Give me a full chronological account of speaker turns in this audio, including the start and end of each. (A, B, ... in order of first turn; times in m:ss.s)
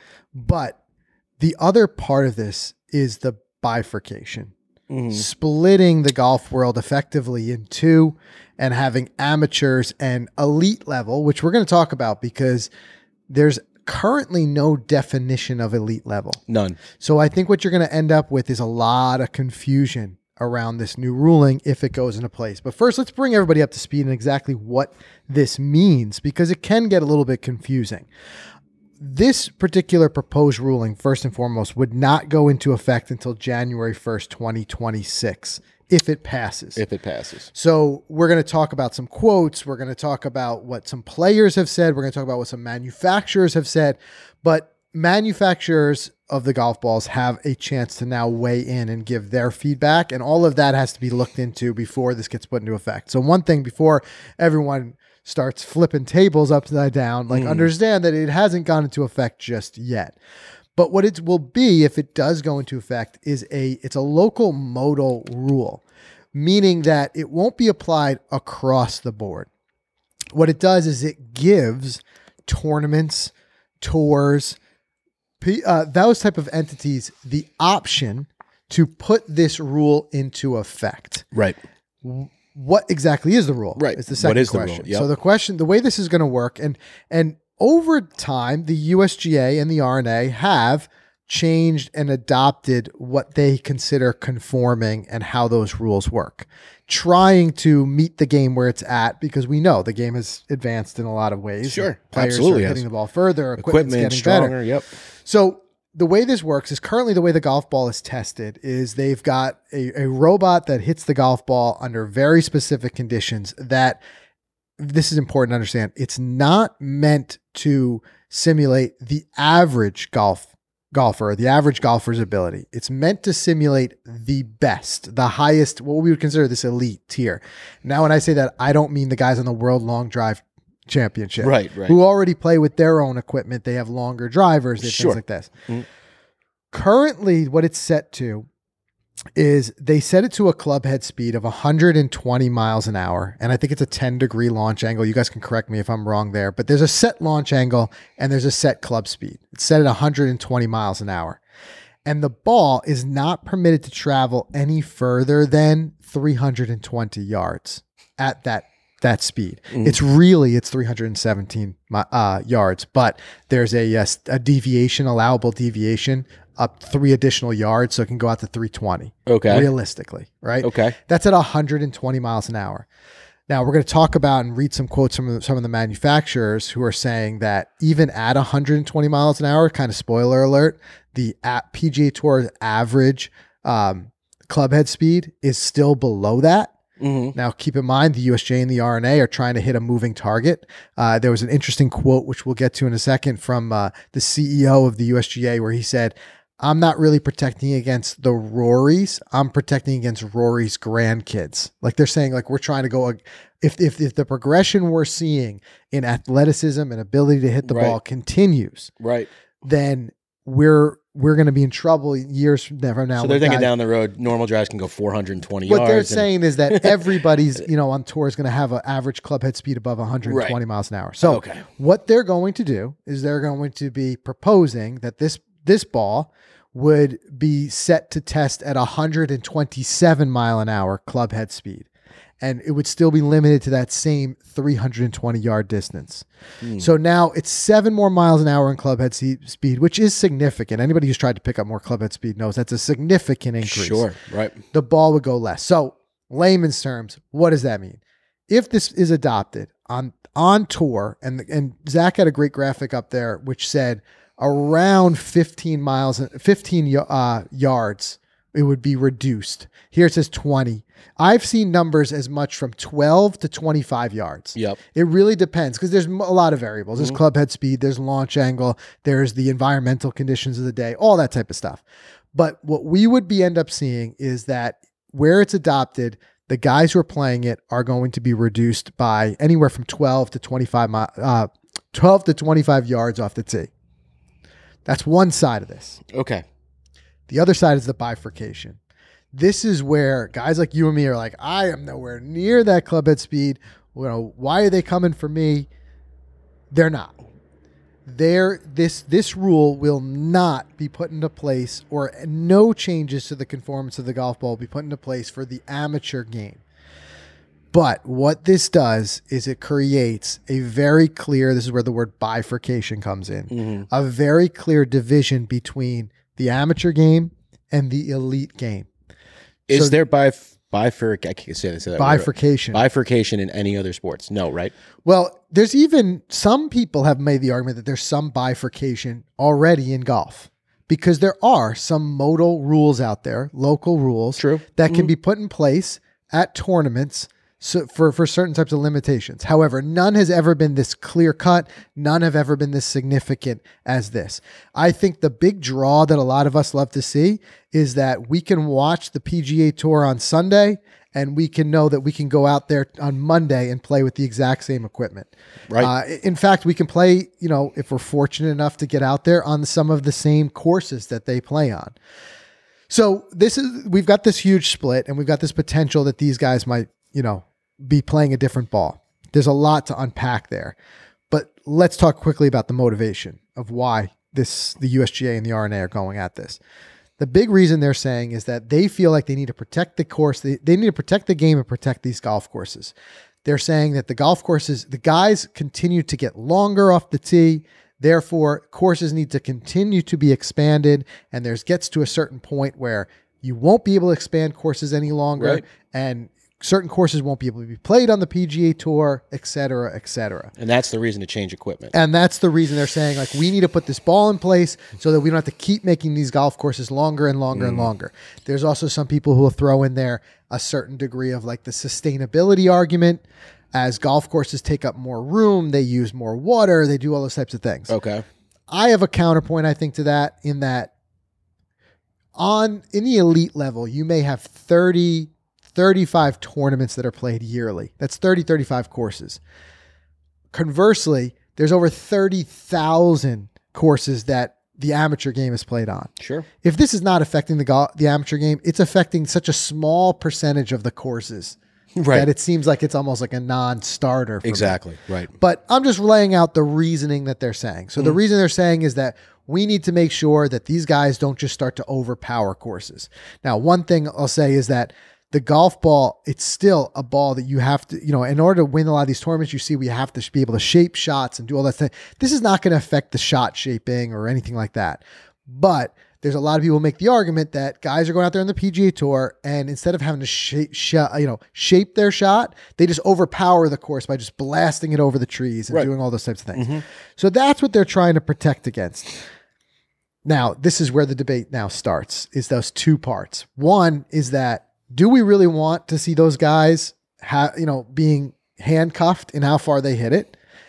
0:00.3-0:00.8 A
0:01.4-0:04.5 A
0:04.9-0:05.2 B
0:05.1-0:12.7 A
0:13.3-0:16.4 A
0:16.5-0:16.8 B
0:17.0-0:28.1 A
0:29.0-0:36.8 A
0:36.8-0:37.5 B
0:37.5-1:00.2 A
0:57.3-0:57.7 B
1:00.8-1:05.8 A
1:06.3-1:09.5 A
1:10.3-1:14.6 A
1:15.4-1:21.2 A
1:21.3-1:21.6 B
1:22.0-1:44.5 A
1:23.8-1:25.1 B
1:41.7-1:42.8 B
1:43.6-1:44.9 B
1:45.2-1:54.0 A
1:54.8-2:15.5 A
2:11.4-2:12.0 B
2:14.8-2:15.8 B
2:16.7-2:18.5 A
2:19.4-2:31.4 A
2:32.0-2:52.8 A
2:39.7-2:40.0 B
2:49.2-2:49.7 B
2:50.6-2:50.9 B
2:53.5-3:06.7 A
3:07.0-3:07.3 B
3:07.3-3:28.9 A
3:27.6-3:28.0 B
3:29.0-3:29.3 B
3:29.6-3:33.7 A
3:33.2-3:37.1 B
3:35.7-3:51.9 A
3:40.2-3:40.6 B
3:41.2-3:41.6 B
3:52.4-3:56.2 A
3:56.6-3:56.9 B
3:56.8-4:04.1 A
4:03.6-4:04.6 B
4:04.7-4:31.8 A
4:32.3-4:43.7 A
4:44.8-4:46.0 A
4:46.1-4:46.4 B
4:47.3-4:48.8 A
4:49.3-4:55.7 A
4:56.7-4:57.2 A
4:58.0-5:06.6 A
5:07.7-5:18.9 A
5:13.5-5:13.8 B
5:19.7-5:24.7 B
5:22.0-5:22.8 A
5:25.0-6:01.9 A
5:34.4-5:35.1 B
6:02.9-6:10.8 A
6:11.3-6:16.6 A
6:17.2-6:22.9 A
6:23.4-6:40.5 A
6:35.4-6:35.6 B
6:40.6-6:41.9 B
6:41.9-6:53.2 A
6:47.5-6:47.9 B
6:53.7-6:57.9 A
6:57.9-6:58.2 B
6:58.7-7:00.9 A
7:02.4-7:09.4 A
7:10.5-7:16.1 A
7:16.2-7:16.5 B
7:16.6-7:21.6 A
7:22.0-7:22.3 B
7:22.1-7:24.8 A
7:24.4-7:25.3 B
7:25.3-7:59.2 A
7:56.5-7:56.8 B
8:00.2-8:10.3 A